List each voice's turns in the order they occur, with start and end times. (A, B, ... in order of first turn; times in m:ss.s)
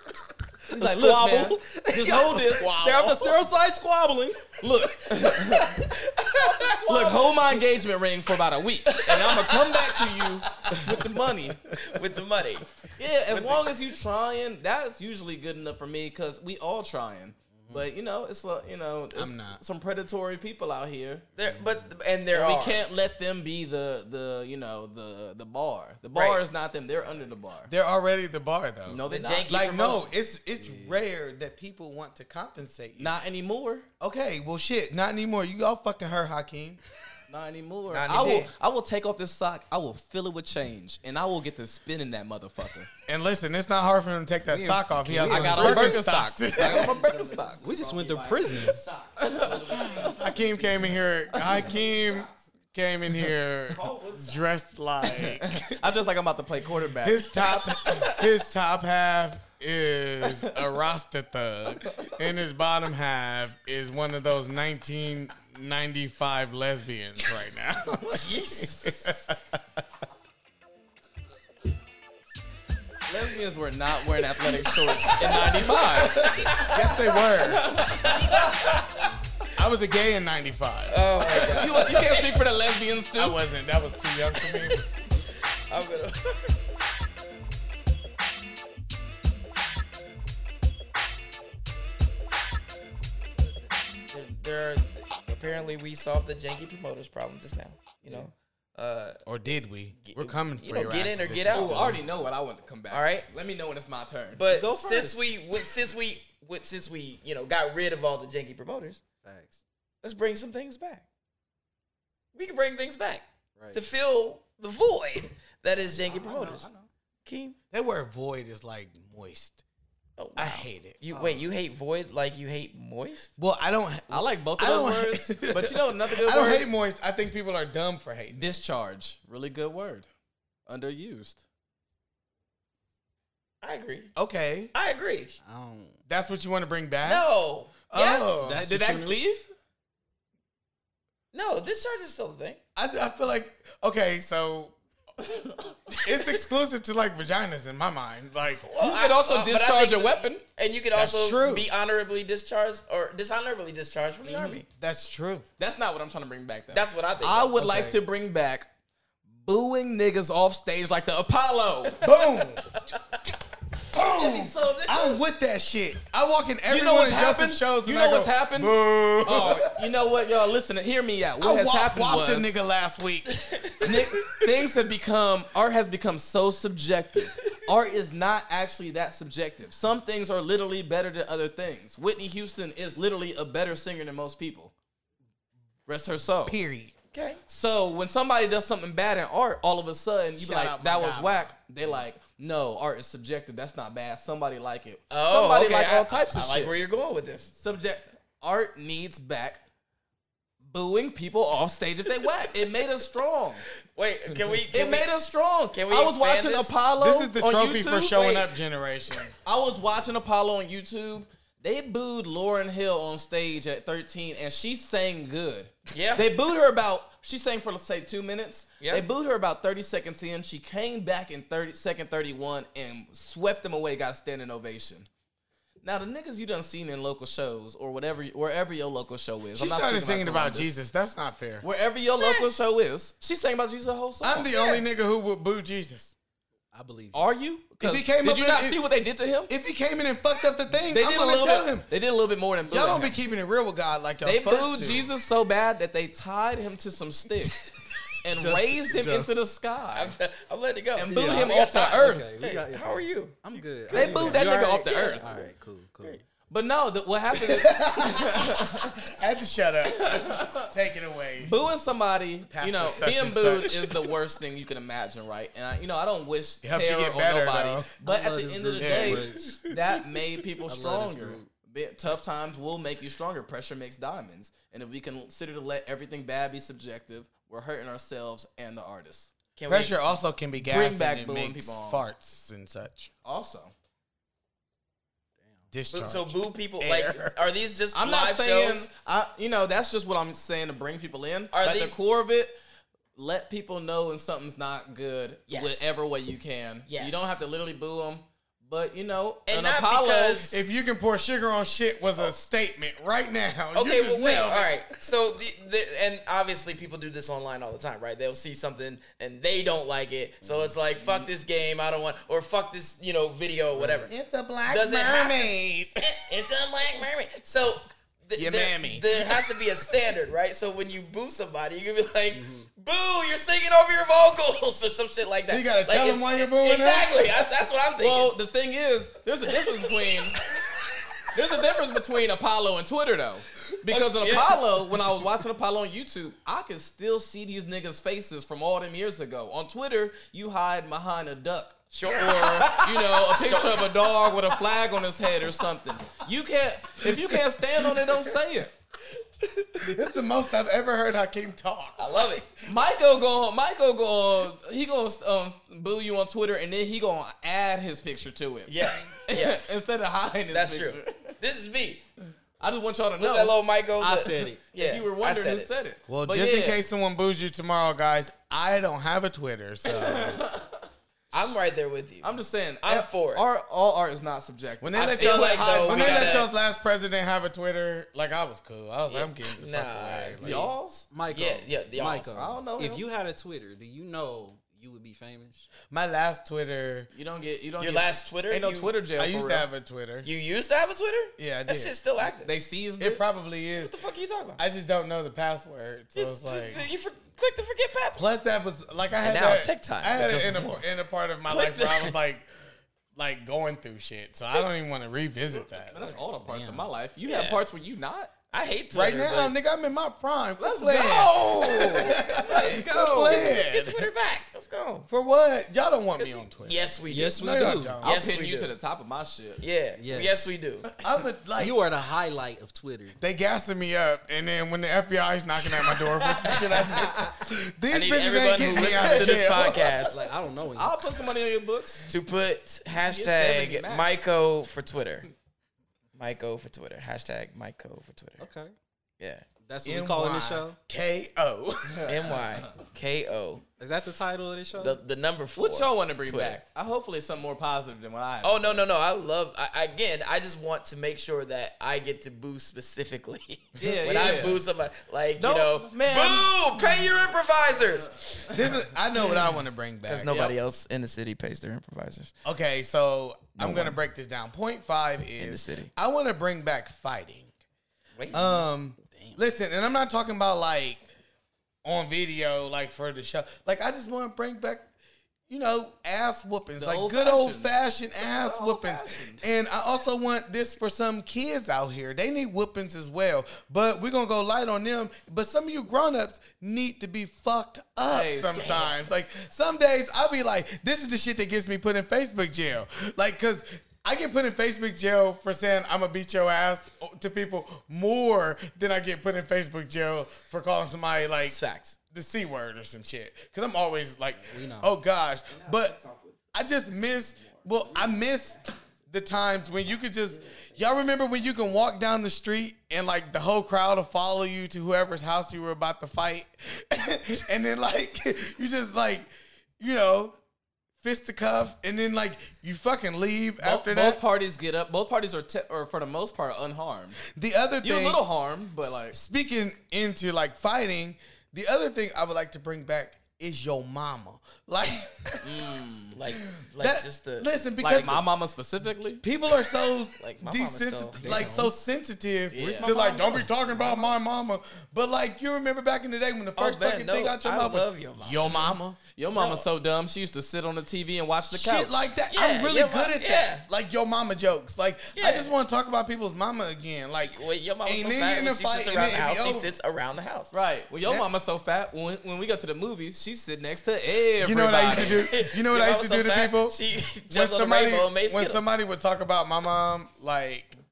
0:00.7-0:02.9 A
0:00.7-0:04.6 B
0:02.0-0:03.3 C
0:02.6-0:03.2 D
0:04.6-0:05.9 A
0:05.1-0:07.6 C
0:06.8-0:11.6 A
0:08.9-0:11.0 C
0:11.7-0:12.7 C
0:13.0-0:21.2 A
0:13.3-0:13.7 C
0:19.1-0:19.6 D
0:21.4-0:22.8 C
0:22.3-0:27.7 A
0:26.1-0:26.4 C
0:27.7-0:33.2 D
0:28.9-0:29.6 A
0:29.1-0:30.1 C
0:33.0-0:33.9 A
0:34.0-0:36.8 D
0:37.3-0:42.9 A
0:37.9-0:38.5 C
0:43.1-0:47.0 D
0:44.5-0:46.1 B
0:45.2-0:47.7 A
0:46.6-0:50.7 C
0:47.6-0:48.8 B
0:49.2-0:50.2 A
0:50.0-0:55.8 D
0:51.4-0:52.3 C
0:53.7-0:54.4 C
0:55.2-0:58.2 A
0:57.0-1:09.6 D
1:08.1-1:09.2 C
1:13.1-1:18.5 A
1:14.9-1:17.1 C
1:16.0-1:17.7 D
1:17.9-1:19.1 C
1:19.6-1:21.9 D
1:20.9-1:22.4 C
1:21.3-1:23.4 A
1:23.2-1:24.8 D
1:24.4-1:24.8 C
1:25.7-1:26.6 C
1:33.4-1:39.2 C
1:39.2-1:42.0 D
1:40.0-1:42.0 C
1:41.5-1:44.4 A
1:42.9-1:43.3 C
1:44.4-1:49.0 C
1:44.5-1:45.2 B
1:49.2-1:49.6 B
1:50.0-1:51.1 C
1:52.3-1:56.7 C
1:56.0-1:56.9 B
1:57.2-1:57.6 C
1:57.7-1:59.6 D
2:00.2-2:03.3 C
2:00.4-2:01.0 D
2:01.1-2:01.4 B
2:03.4-2:08.5 D
2:04.1-2:06.7 A
2:08.4-2:10.1 A
2:10.7-2:11.4 A
2:13.6-2:14.1 C
2:14.2-2:14.7 D
2:14.7-2:15.4 C
2:15.4-2:16.0 B
2:16.1-2:17.3 D
2:17.0-2:18.4 C
2:17.9-2:19.1 D
2:18.4-2:19.5 A
2:21.3-2:22.6 C
2:22.8-2:24.8 D
2:25.9-2:28.7 D
2:25.9-2:26.3 C
2:28.6-2:34.7 C
2:28.8-2:30.4 A
2:30.9-2:31.7 D
2:34.2-2:34.6 A
2:34.8-2:35.5 D
2:35.6-2:38.7 A
2:36.7-2:37.6 C
2:37.6-2:38.0 B
2:39.3-2:42.0 A
2:42.0-2:42.6 D
2:42.0-2:43.2 C
2:43.9-2:45.2 A
2:44.0-2:49.6 D
2:46.7-2:52.6 A
2:48.6-2:49.7 C
2:51.4-2:53.4 D
2:53.3-2:54.5 C
2:53.8-3:04.7 A
3:05.9-3:06.6 A
3:06.5-3:06.9 D
3:07.1-3:07.4 C
3:07.5-3:16.7 A
3:10.4-3:11.4 D
3:15.1-3:17.5 C
3:17.5-3:19.6 A
3:20.6-3:23.7 A
3:23.9-3:25.1 C
3:24.7-3:28.4 A
3:25.7-3:26.8 C
3:26.9-3:29.3 D
3:29.4-3:45.1 A
3:35.9-3:36.3 C
3:45.8-3:50.8 A
3:49.6-3:51.6 D
3:51.6-3:54.5 A
3:52.2-3:52.5 C
3:54.2-3:56.2 D
3:54.5-3:54.8 C
3:56.7-3:57.3 B
3:57.1-3:59.5 A
3:57.8-3:58.8 D
3:59.5-4:01.9 D
4:00.9-4:03.2 A
4:02.7-4:05.1 D
4:04.2-4:07.7 A
4:08.2-4:10.2 A
4:08.4-4:09.3 B
4:09.9-4:15.2 C
4:11.0-4:12.3 A
4:11.1-4:16.2 B
4:13.9-4:15.5 A
4:16.5-4:19.0 A
4:17.5-4:21.6 D
4:20.0-4:20.7 A
4:21.4-4:39.3 A
4:22.5-4:23.9 D
4:26.6-4:27.9 D
4:28.0-4:29.7 B
4:28.8-4:29.3 D
4:30.7-4:31.5 B
4:39.6-4:40.2 C
4:39.7-4:43.1 D
4:40.6-4:42.0 A
4:43.2-4:43.7 A
4:45.7-4:47.4 D
4:45.9-4:48.9 C
4:47.9-4:52.6 A
4:51.5-4:52.0 C
4:53.2-5:00.6 A
4:55.5-4:56.0 C
4:56.9-4:57.4 C
4:59.5-5:00.6 C
5:00.5-5:04.8 D
5:03.8-5:14.1 C
5:13.7-5:14.1 B
5:14.1-5:16.1 D
5:14.7-5:28.4 C
5:18.4-5:19.3 D
5:22.3-5:22.7 B
5:25.5-5:27.4 D
5:28.0-5:30.5 A
5:31.3-5:48.7 A
5:33.9-5:34.6 C
5:41.9-5:44.1 C
5:49.4-5:49.8 C
5:49.8-5:52.4 D
5:52.0-5:52.5 C
5:52.6-6:01.3 A
5:58.7-5:59.6 C
6:00.5-6:02.0 C
6:02.6-6:03.6 A
6:03.2-6:05.7 C
6:04.0-6:04.6 B
6:04.7-6:06.8 A
6:06.1-6:10.5 D
6:09.9-6:10.8 A
6:11.3-6:13.5 C
6:12.2-6:16.5 A
6:14.8-6:20.7 D
6:14.9-6:16.5 C
6:19.1-6:20.7 C
6:20.4-6:21.1 A
6:21.1-6:25.7 B
6:21.3-6:22.4 C
6:22.3-6:23.0 A
6:25.9-6:27.1 D
6:27.1-6:29.7 A
6:27.8-6:28.9 C
6:29.2-6:30.3 D
6:30.2-6:32.6 C
6:31.4-6:32.0 D
6:32.3-6:33.2 A
6:33.0-6:33.9 D
6:33.8-6:34.6 C
6:34.6-6:36.8 D
6:36.2-6:38.3 C
6:38.2-6:42.5 D
6:39.2-6:40.8 C
6:41.5-6:42.2 C
6:43.2-6:46.0 D
6:45.9-6:48.3 A
6:46.5-6:46.9 B
6:47.2-6:47.6 C
6:48.5-6:49.6 C
6:48.9-6:54.1 D
6:50.6-6:53.6 A
6:50.8-6:55.1 C
6:55.1-6:56.8 D
6:56.2-6:57.4 C
6:57.1-6:58.0 B
6:57.4-6:58.1 D
6:58.0-6:59.6 A
6:58.0-6:58.7 C
6:59.6-7:00.9 C
7:00.0-7:00.5 B
7:01.0-7:01.8 D
7:01.6-7:03.2 B
7:03.2-7:10.0 D
7:06.4-7:07.1 C
7:07.9-7:10.2 C
7:09.0-7:11.2 B
7:10.8-7:12.1 A
7:12.1-7:15.3 C
7:13.0-7:14.3 A
7:16.2-7:18.4 C
7:18.4-7:18.7 B
7:19.2-7:19.4 C
7:19.6-7:20.8 B
7:19.8-7:22.4 D
7:21.9-7:22.6 A
7:22.1-7:23.6 C
7:23.8-7:25.0 B
7:24.8-7:26.6 C
7:25.6-7:28.8 A
7:28.4-7:38.6 C
7:33.8-7:34.6 A
7:35.4-7:38.8 A
7:38.5-7:40.4 D
7:40.1-7:42.3 C
7:40.3-7:40.6 A
7:42.4-7:47.5 D
7:43.6-7:44.0 C
7:45.4-7:45.9 C
7:48.2-7:48.4 C
7:48.3-7:51.0 D
7:49.1-7:49.4 B
7:51.8-7:54.9 D
7:55.5-8:21.6 D
7:56.8-7:59.4 A
7:58.7-7:59.0 C
8:08.1-8:08.9 A
8:08.6-8:08.8 C
8:21.4-8:22.0 C
8:22.1-8:26.0 D
8:24.5-8:24.9 B
8:25.5-8:26.4 C
8:26.5-8:40.4 D
8:27.4-8:28.8 C
8:41.0-8:44.2 D
8:43.6-8:47.2 A
8:47.3-8:48.2 D
8:47.8-8:49.2 A
8:48.8-8:55.6 D
8:55.4-8:56.2 A
8:56.1-8:57.5 C
8:56.5-8:58.2 D
8:57.8-8:59.2 A
8:59.2-9:09.0 D
9:00.2-9:01.5 C
9:01.2-9:01.7 B
9:02.5-9:02.9 A
9:02.5-9:04.0 B
9:06.6-9:08.7 C
9:08.5-9:12.1 A
9:09.3-9:09.7 C
9:11.5-9:19.7 D
9:12.3-9:13.6 C
9:15.2-9:15.5 C
9:17.3-9:20.5 C
9:20.5-9:25.2 A
9:24.4-9:26.8 D
9:25.0-9:28.7 C
9:27.3-9:30.8 D